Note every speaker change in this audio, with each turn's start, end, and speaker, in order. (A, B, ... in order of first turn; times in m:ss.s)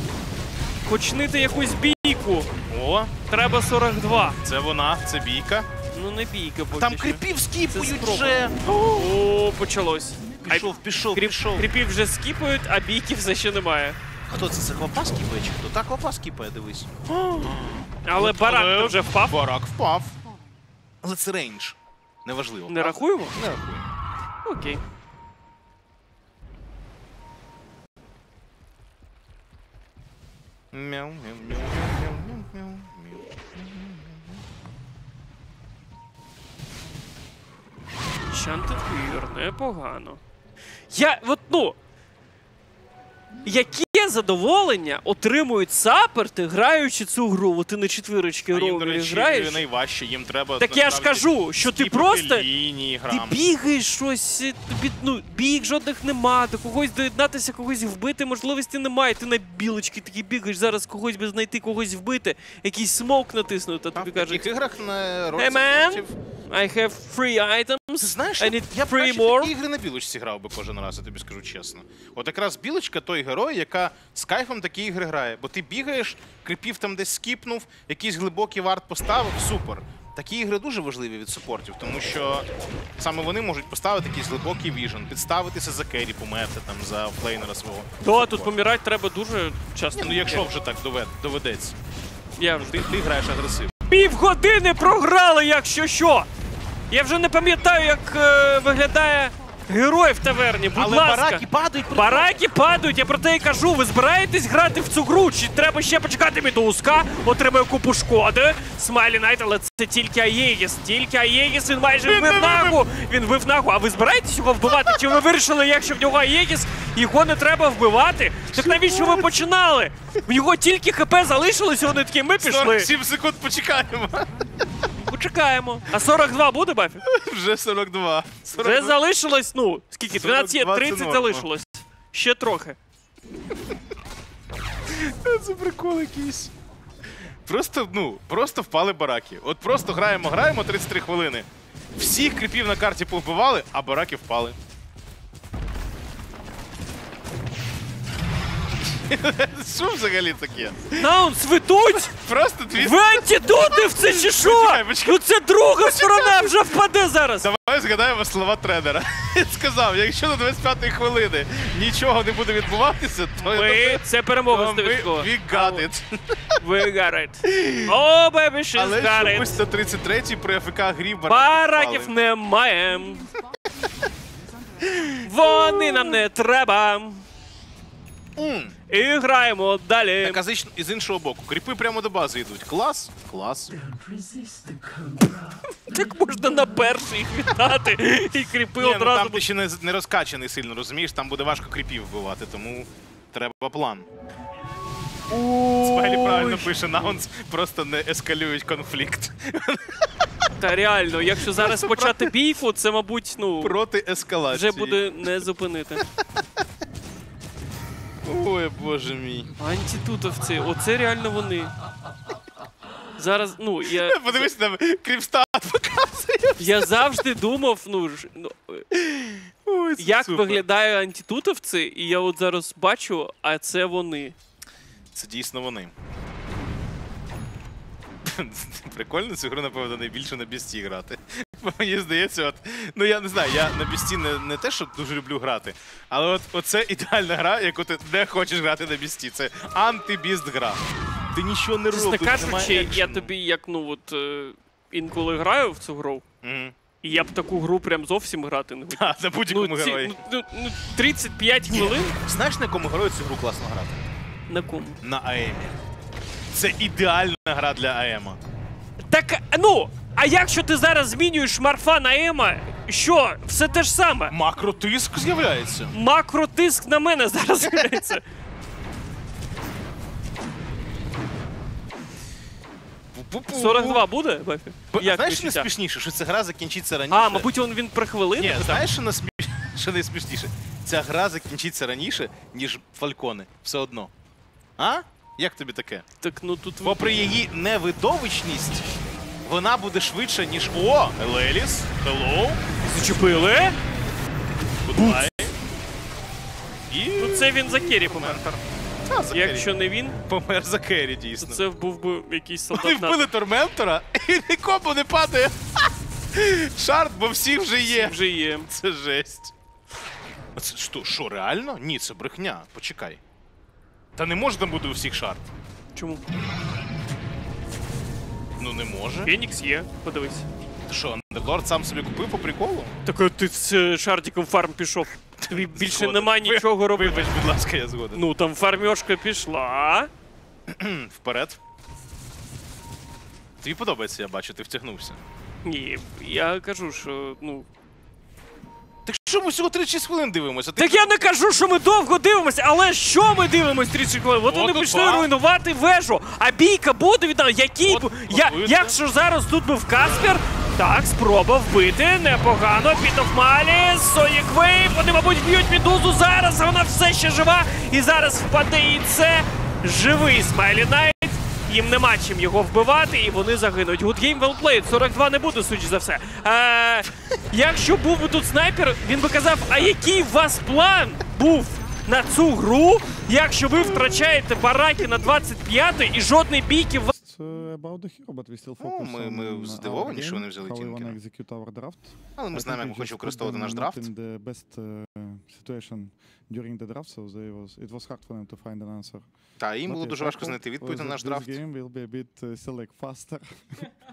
0:00.8-0:02.5 A
0:02.7-0:03.1 B
0:03.3-0:04.4 A
0:04.4-0:05.7 B
0:05.9-0:14.0 A
0:06.7-0:09.1 B
0:10.4-0:11.7 B
0:14.3-0:20.2 B
0:18.0-0:19.4 A
0:21.0-0:23.9 B
0:22.7-0:23.4 A
0:24.4-0:24.8 A
0:30.7-0:34.4 B
0:38.3-0:40.2 A
0:40.9-0:41.8 A
0:43.4-0:49.6 A
0:48.5-0:53.4 B
0:50.6-0:52.5 A
0:53.1-1:04.5 A
1:03.9-1:06.2 B
1:05.3-1:09.5 A
1:08.0-1:28.5 B
1:28.0-1:30.5 A
1:29.9-1:31.8 B
1:32.4-1:32.9 A
1:32.6-1:33.9 B
1:33.9-1:36.3 A
1:36.9-2:02.9 A
1:40.7-1:42.4 B
1:51.9-1:52.8 B
1:54.7-1:55.1 B
1:58.5-1:59.3 B
2:02.4-2:04.6 B
2:04.9-2:07.0 A
2:07.0-2:09.0 B
2:08.4-2:12.8 A
2:10.1-2:11.5 B
2:14.9-2:16.5 B
2:17.4-2:24.6 B
2:28.8-2:31.1 B
2:30.9-2:32.1 A
2:32.0-2:36.6 B
2:32.7-2:37.5 A
2:37.4-2:46.5 B
2:43.4-2:45.8 A
2:46.6-2:49.6 A
2:47.4-2:48.0 B
2:48.8-2:52.1 B
2:51.3-2:53.3 A
2:54.8-2:56.1 B
2:55.2-2:57.2 A
2:58.4-2:58.7 B
2:58.9-3:00.4 A
3:00.2-3:03.7 B
3:05.5-3:09.4 A
3:08.8-3:14.1 B
3:15.3-3:17.2 A
3:15.8-3:20.5 B
3:20.6-3:23.8 A
3:21.4-3:22.3 B
3:23.6-3:25.0 B
3:24.5-3:26.0 A
3:26.0-3:26.6 B
3:28.2-3:29.5 B
3:29.6-3:31.7 A
3:33.2-3:34.5 A
3:33.8-3:37.2 B
3:36.6-3:38.9 A
3:38.9-3:40.6 B
3:40.0-3:44.3 A
3:45.1-3:45.9 B
3:48.2-4:03.3 B
4:01.9-4:06.2 A
4:06.4-4:06.7 B
4:07.0-4:12.2 A
4:08.9-4:10.2 B
4:11.7-4:14.0 B
4:14.5-4:15.0 A
4:15.0-4:15.7 B
4:16.5-4:18.4 B
4:19.0-4:24.3 A
4:24.3-4:25.9 B
4:25.9-4:28.2 A
4:27.6-4:28.1 B
4:33.1-4:34.0 B
4:33.5-4:35.7 A
4:34.9-4:37.5 B
4:37.1-4:38.8 A
4:38.4-4:44.1 B
4:44.8-4:46.0 B
4:46.2-4:47.2 A
4:46.8-4:48.9 B
4:49.4-4:52.6 B
4:52.8-4:53.8 A
4:54.8-4:55.5 B
4:54.9-4:55.3 A
4:56.9-4:59.7 B
4:57.2-4:58.6 A
4:59.3-5:00.2 A
5:00.2-5:01.6 B
5:01.4-5:03.3 A
5:02.7-5:09.5 B
5:07.8-5:08.7 A
5:10.5-5:13.2 B
5:14.2-5:15.5 B
5:15.9-5:16.2 A
5:18.6-5:19.3 B
5:19.2-5:20.5 A
5:20.9-5:22.9 B
5:23.0-5:27.3 A
5:25.4-5:28.2 B
5:28.1-5:30.1 A
5:30.7-5:31.6 B
5:33.6-5:35.2 B
5:35.6-5:37.6 A
5:39.0-5:41.2 B
5:40.8-6:17.1 A
5:44.4-5:45.3 B
5:47.8-5:49.0 B
6:09.7-6:10.1 B
6:13.8-6:14.3 B
6:17.1-6:29.3 C
6:18.8-6:21.2 B
6:22.4-6:24.1 B
6:29.6-6:31.6 B
6:29.8-6:33.9 C